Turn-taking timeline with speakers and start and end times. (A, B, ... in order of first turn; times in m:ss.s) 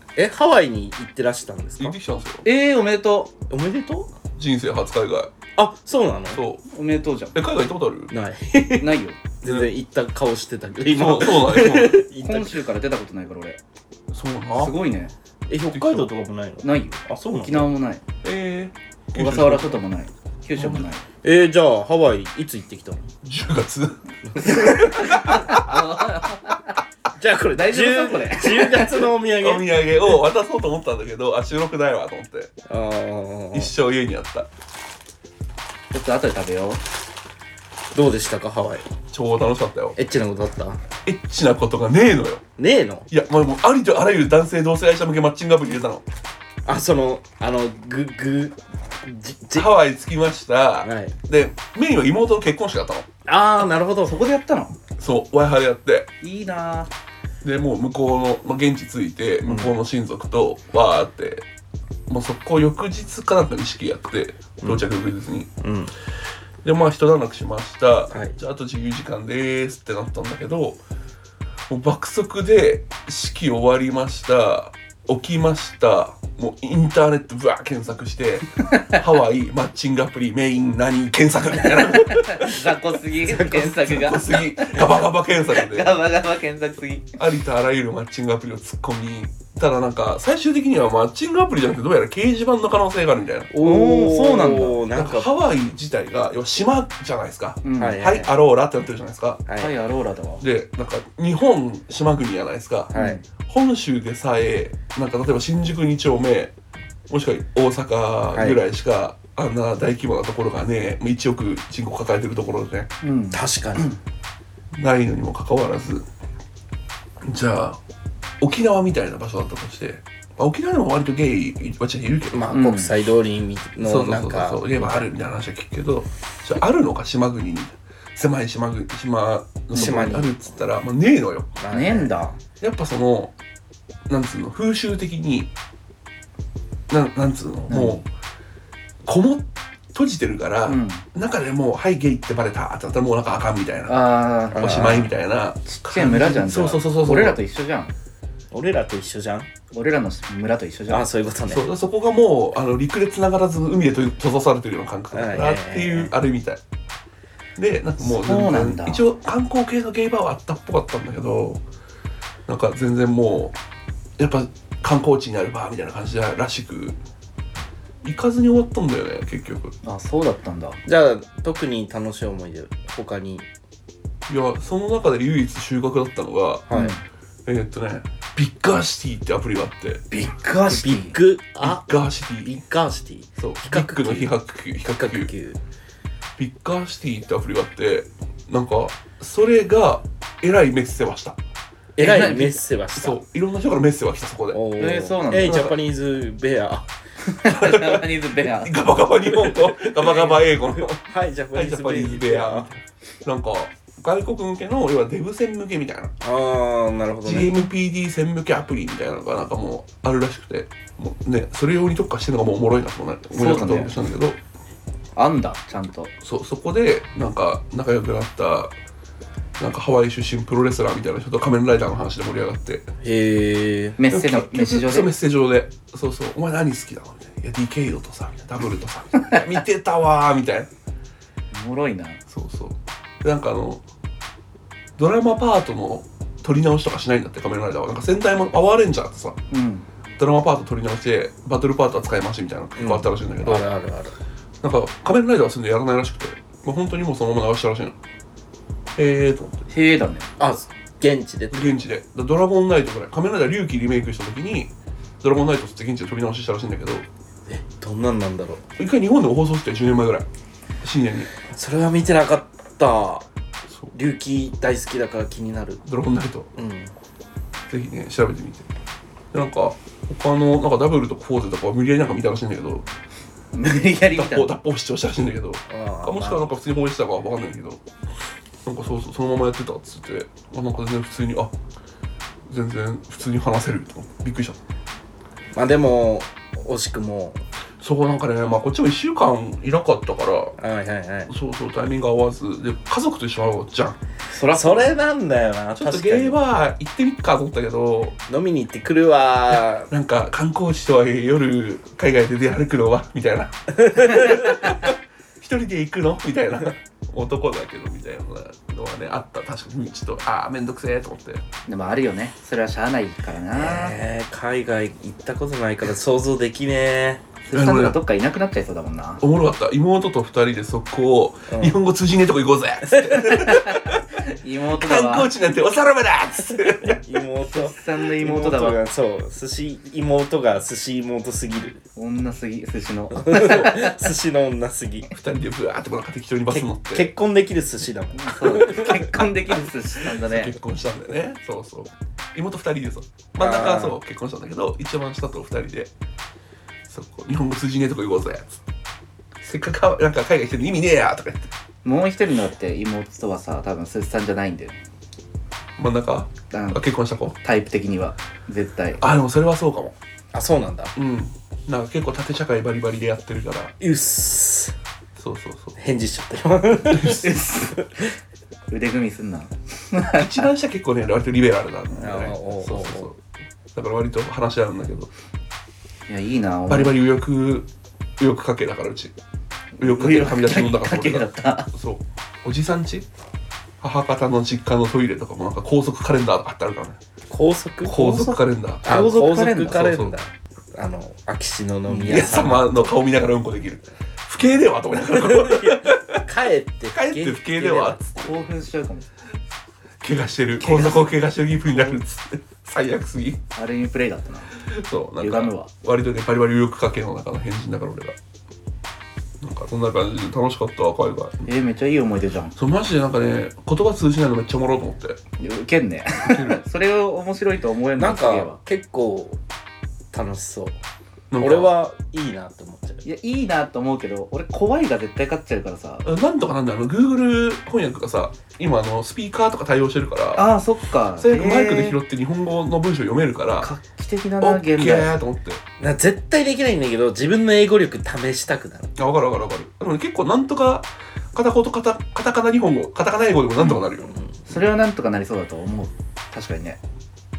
0:00.2-0:02.0 A
0:01.8-0:02.4 B
0:02.4-0:03.3 C
0:03.5-0:04.1 A
0:04.4-0:05.3 B
0:05.6-0:06.4 A
0:06.3-0:06.6 B
0:06.7-0:07.4 C
0:07.3-0:08.1 B
0:08.1-0:12.6 A
0:08.8-0:09.2 C
0:09.4-0:09.7 B
0:10.9-0:12.0 B
0:12.2-0:13.6 C
0:14.1-0:14.8 B
0:14.5-0:15.1 C
0:15.5-0:17.7 A
0:15.7-0:16.1 B
0:16.6-0:18.0 C
0:18.2-0:19.8 B
0:19.1-0:21.0 C
0:20.6-0:20.9 B
0:21.2-0:23.1 A
0:23.2-0:25.7 B
0:24.3-0:25.1 A
0:24.4-0:26.8 C
0:27.2-0:29.7 A
0:27.5-0:29.0 C
0:29.4-0:32.5 B
0:32.7-0:33.7 A
0:33.5-0:34.5 B
0:35.9-0:36.8 C
0:37.9-0:38.9 A
0:39.1-0:40.0 B
0:40.0-0:40.8 A
0:41.0-0:42.4 B
0:42.6-0:43.1 A
0:43.1-0:46.0 B
0:46.6-0:49.7 A
0:49.5-0:53.1 B
0:50.8-0:51.1 A
0:53.2-0:54.2 A
0:54.0-0:54.8 C
0:55.0-0:56.1 B
0:56.2-0:56.9 C
0:57.4-1:01.4 B
0:59.4-0:59.7 A
1:02.1-1:05.5 B
1:05.6-1:05.9 A
1:06.6-1:10.8 B
1:11.7-1:22.5 B
1:21.8-1:27.2 C
1:23.2-1:23.9 A
1:23.8-1:26.0 B
1:27.2-1:33.5 B
1:33.5-1:35.3 A
1:33.6-1:34.8 C
1:34.9-1:39.4 B
1:37.6-1:38.0 C
1:37.8-1:38.3 A
1:39.5-1:39.7 A
1:39.6-1:40.4 C
1:40.4-1:46.5 B
1:42.9-1:43.2 A
1:42.9-1:43.2 C
1:47.1-1:52.9 B
1:48.3-1:48.6 A
1:53.0-1:54.0 C
1:53.3-1:53.9 A
1:54.8-1:56.0 B
1:57.2-1:57.8 B
1:58.4-2:02.5 B
2:02.3-2:05.0 A
2:02.5-2:02.9 C
2:03.8-2:11.5 B
2:09.7-2:10.4 A
2:11.6-2:12.1 A
2:11.7-2:12.4 C
2:12.6-2:13.3 B
2:14.1-2:15.5 B
2:16.9-2:18.0 B
2:17.7-2:18.0 C
2:19.0-2:27.4 B
2:20.7-2:21.0 C
2:23.9-2:25.0 C
2:24.5-2:25.1 A
2:25.7-2:28.0 C
2:28.5-2:29.5 A
2:29.7-2:31.0 C
2:30.9-2:31.7 A
2:31.5-2:36.6 B
2:35.1-2:36.1 A
2:37.6-2:41.6 B
2:38.0-2:39.0 C
2:42.5-2:43.5 B
2:44.2-2:47.0 B
2:48.0-2:49.8 B
2:49.8-2:50.8 C
2:50.8-2:53.5 A
2:54.3-2:56.7 B
2:56.7-2:57.0 A
2:56.7-2:57.0 C
2:57.5-3:00.0 B
3:00.1-3:01.2 C
3:00.6-3:04.3 A
3:01.6-3:02.6 B
3:03.4-3:05.3 B
3:04.9-3:05.6 A
3:06.4-3:11.4 B
3:12.0-3:13.2 A
3:12.0-3:12.6 C
3:13.0-3:14.6 B
3:14.5-3:16.9 A
3:14.8-3:15.7 C
3:15.4-3:15.8 B
3:17.2-3:18.8 C
3:17.5-3:21.0 B
3:19.4-3:22.7 A
3:21.5-3:26.1 B
3:26.2-3:27.6 A
3:27.2-3:34.4 B
3:33.3-3:34.0 C
3:35.2-3:36.1 C
3:36.2-3:38.7 B
3:39.6-3:42.9 B
3:43.0-3:44.0 A
3:44.0-3:45.1 C
3:44.1-3:50.7 B
3:51.5-3:52.2 C
3:52.3-3:53.8 B
3:55.0-3:59.4 B
3:59.5-3:59.8 C
4:00.2-4:03.7 B
4:02.8-4:04.1 A
4:04.6-4:08.0 B
4:09.0-4:09.7 B
4:09.7-4:10.3 C
4:10.4-4:11.8 A
4:11.5-4:17.1 B
4:17.5-4:18.6 A
4:18.8-4:20.2 B
4:20.8-4:21.3 B
4:21.5-4:23.3 A
4:23.9-4:25.8 A
4:25.8-4:26.5 B
4:26.6-4:26.9 A
4:27.7-4:28.7 B
4:29.3-4:32.8 B
4:33.5-4:34.5 C
4:34.1-4:37.8 B
4:35.7-4:36.5 A
4:38.6-4:41.5 B
4:42.5-4:44.6 B
4:45.5-4:47.4 A
4:47.8-4:50.6 B
4:50.6-4:51.3 A
4:51.3-4:54.0 B
4:54.3-4:55.0 C
4:54.5-4:56.4 A
4:55.8-4:58.2 B
4:58.3-4:59.9 A
4:59.5-5:11.4 B
5:04.0-5:04.3 A
5:11.7-5:14.0 C
5:13.5-5:17.2 A
5:17.5-5:19.2 C
5:17.5-5:18.0 B
5:19.2-5:24.0 B
5:21.5-5:21.8 A
5:23.1-5:25.3 C
5:24.8-5:27.0 B
5:26.9-5:31.8 A
5:27.4-5:28.8 C
5:32.0-5:34.1 C
5:33.1-5:35.1 A
5:35.1-5:37.1 B
5:36.5-5:39.2 A
5:38.2-5:40.6 C
5:40.1-5:45.9 B
5:43.4-5:44.0 A
5:46.9-5:48.6 B
5:49.4-5:51.5 B
5:51.8-5:54.8 C
5:55.8-5:57.4 B
5:56.5-5:56.8 C
5:57.4-5:59.0 C
5:59.0-6:00.0 B
6:00.3-6:01.0 A
6:01.0-6:03.8 B
6:03.8-6:04.8 A
6:05.2-6:05.8 B
6:05.8-6:07.2 A
6:07.2-6:07.8 C
6:08.7-6:10.5 C
6:10.1-6:13.2 B
6:11.9-6:13.1 A
6:13.7-6:15.1 B
6:16.1-6:16.9 C
6:16.7-6:17.7 B
6:18.2-6:19.1 B
6:19.8-6:21.7 C
6:19.8-6:23.0 B
6:23.8-6:27.0 B
6:27.3-6:28.0 A
6:27.8-6:29.9 C
6:27.8-6:30.2 B
6:28.8-6:32.9 A
6:31.9-6:32.2 C
6:32.0-6:36.2 B
6:35.1-6:38.0 A
6:36.9-6:38.5 B
6:38.1-6:39.1 C
6:40.0-6:43.4 B
6:40.6-6:41.1 A
6:40.6-6:41.0 C
6:43.5-6:44.5 C
6:44.6-6:48.2 B
6:45.2-6:45.7 C
6:49.4-6:51.5 B
6:51.5-6:52.5 C
6:52.6-6:55.2 B
6:55.4-6:58.6 C
6:56.2-6:56.6 B
6:58.0-6:59.4 A
7:00.1-7:00.8 A
7:01.3-7:01.7 B
7:01.4-7:03.0 A
7:03.0-7:06.0 C
7:06.0-7:10.4 B
7:10.4-7:12.0 C
7:11.2-7:13.7 B
7:13.6-7:15.2 C
7:14.4-7:15.6 B
7:15.8-7:18.9 A
7:19.0-7:24.1 B
7:24.5-7:26.8 C